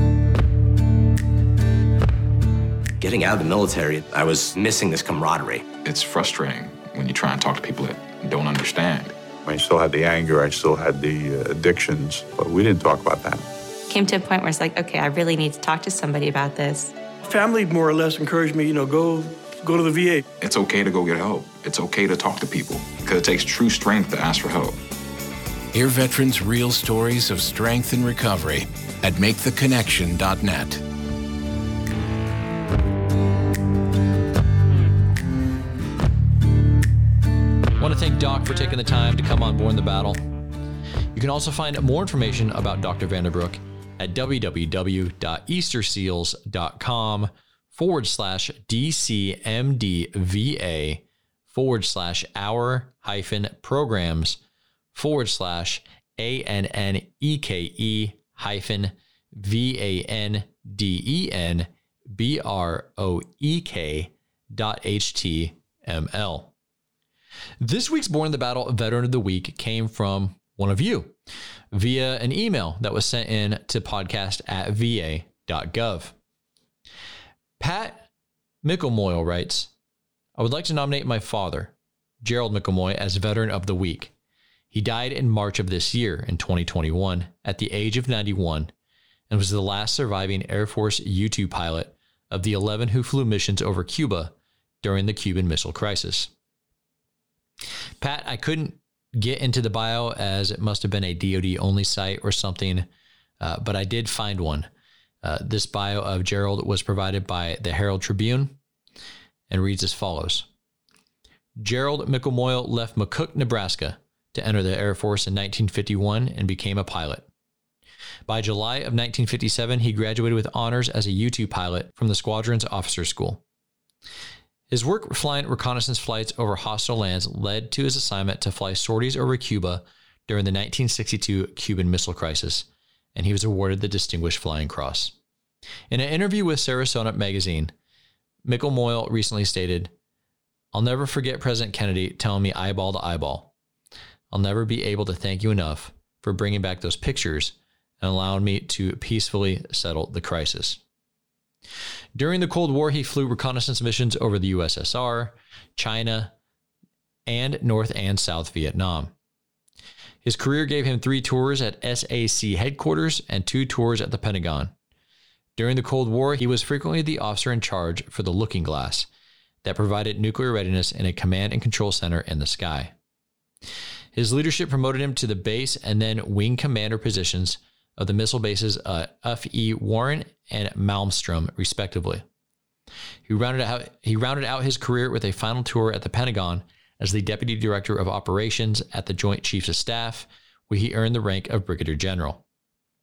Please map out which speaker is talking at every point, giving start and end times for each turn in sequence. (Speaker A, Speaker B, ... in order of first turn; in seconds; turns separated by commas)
Speaker A: 3.0-5.6, Speaker B: 5.8-9.3, Speaker C: 9.4-13.5, Speaker D: 13.9-16.9, Speaker E: 17.2-20.2, Speaker B: 20.4-24.8, Speaker F: 25.7-30.8, Speaker G: 37.8-40.2, Speaker G: 41.1-54.4, Speaker G: 54.9-66.5, Speaker G: 67.6-71.2, Speaker G: 71.7-76.1, Speaker G: 77.6-78.0, Speaker G: 78.6-79.7, Speaker G: 80.4-84.1, Speaker G: 84.7-88.7, Speaker G: 89.3-96.3, Speaker G: 98.0-102.9, Speaker G: 103.4-104.7, Speaker G: 105.2-108.5, Speaker G: 109.5-110.5, Speaker G: 111.6-117.2, Speaker G: 118.3-123.4, Speaker G: 124.7-135.1, Speaker G: 135.9-137.7, Speaker G: 138.4-139.9, Speaker G: 140.7-143.5, Speaker G: 144.3-150.8, Speaker G: 152.2-156.3, Speaker G: 157.2-159.1, Speaker G: 160.2-164.7, Speaker G: 165.6-169.1, Speaker G: 169.6-172.9, Speaker G: 174.1-182.2, Speaker G: 183.2-192.4